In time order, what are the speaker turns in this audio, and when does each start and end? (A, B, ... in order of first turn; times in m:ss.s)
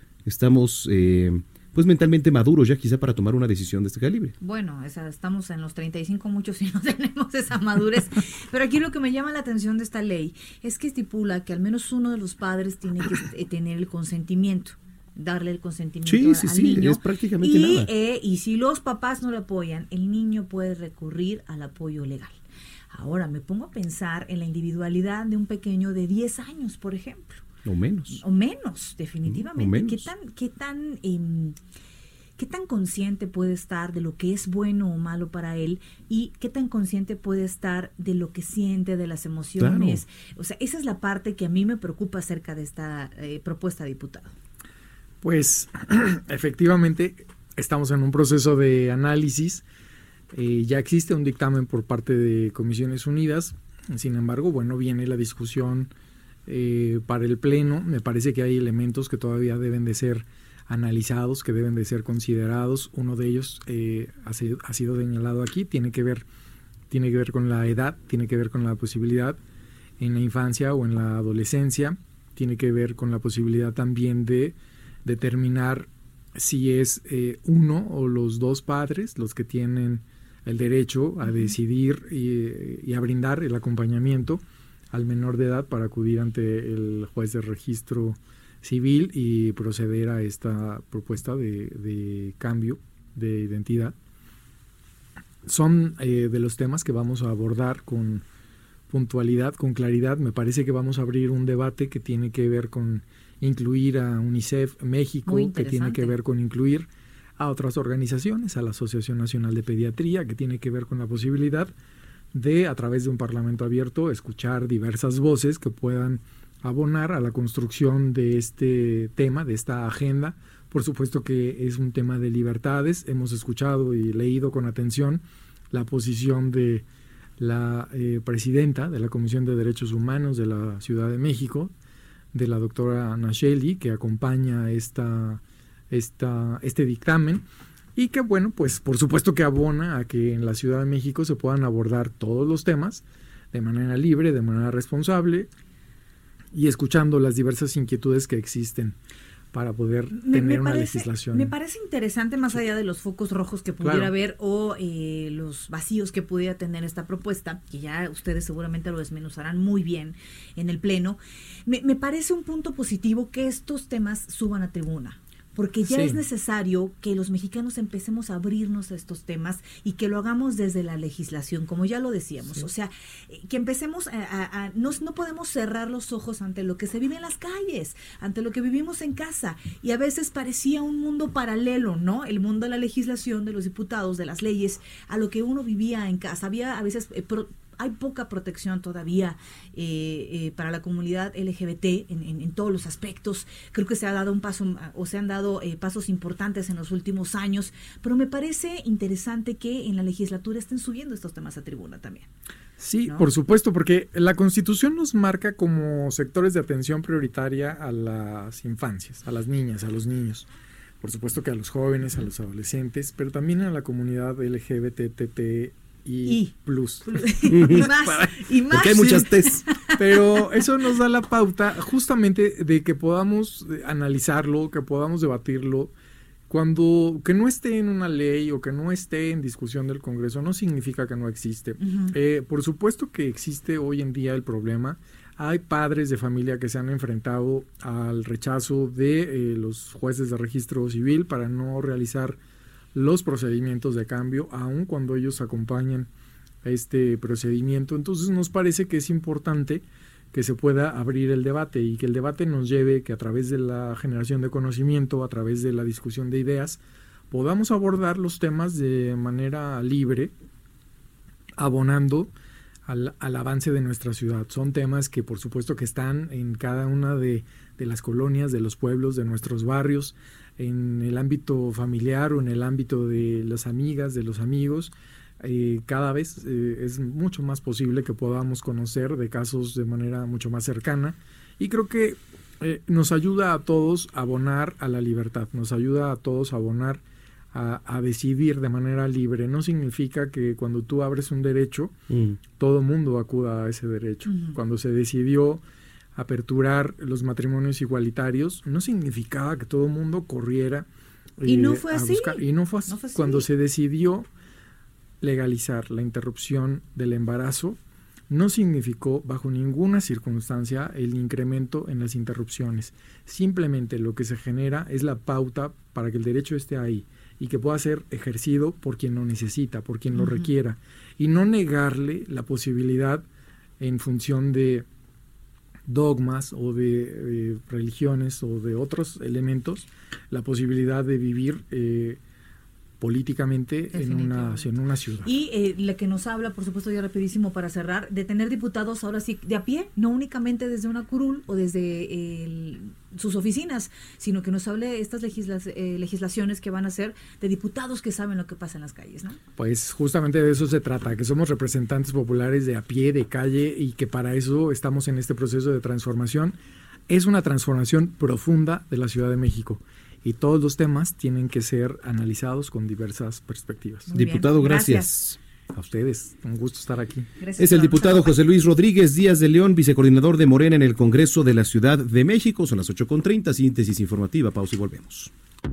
0:00.3-0:04.4 A
0:04.4-0:22.4 B
0:16.0-0:17.9 A
0:22.9-0:27.4 B
0:27.6-0:28.2 A
0:28.1-0:31.6 B
0:29.3-0:30.1 A
0:32.4-0:44.3 B
0:39.6-0:40.0 A
0:45.2-0:49.6 C
0:50.3-0:55.9 C
0:56.5-1:06.2 C
1:06.9-1:09.4 C
1:10.0-1:34.0 C
1:21.3-1:21.5 B
1:35.5-1:38.2 C
1:38.9-1:51.7 C
1:45.3-1:46.2 B
1:52.3-2:06.8 C
2:07.4-2:11.7 C
2:12.3-2:17.4 C
2:18.0-2:25.5 C
2:26.5-2:29.0 C
2:29.5-2:31.5 C
2:30.1-3:22.3 B
2:33.8-2:34.1 C
2:45.9-2:46.2 C
3:22.8-3:30.5 C
3:31.0-3:37.9 C
3:36.3-3:36.5 B
3:37.1-3:40.0 B
3:37.5-3:39.7 A
3:40.0-3:45.9 C
3:46.5-4:02.4 C
3:51.8-3:52.2 B
4:02.9-4:06.1 C
4:06.6-4:20.3 C
4:21.6-4:22.3 C
4:22.9-4:47.0 C
4:47.5-4:52.0 C
4:52.1-4:52.4 A
4:52.5-4:55.6 C
4:54.3-4:54.6 B
4:56.2-5:00.9 C
5:01.4-5:04.3 C
5:01.4-5:03.5 B
5:05.2-5:07.8 C
5:08.3-5:23.2 C
5:20.1-5:20.5 B
5:23.8-5:24.9 C
5:25.9-5:32.2 C
5:33.0-5:35.3 C
5:33.9-5:34.7 B
5:35.2-5:49.4 B
5:49.6-5:56.6 C
5:57.1-6:04.1 C
6:04.1-6:05.2 B
6:04.1-6:05.4 A
6:05.7-6:07.3 C
6:07.4-6:08.4 B
6:07.6-6:15.3 A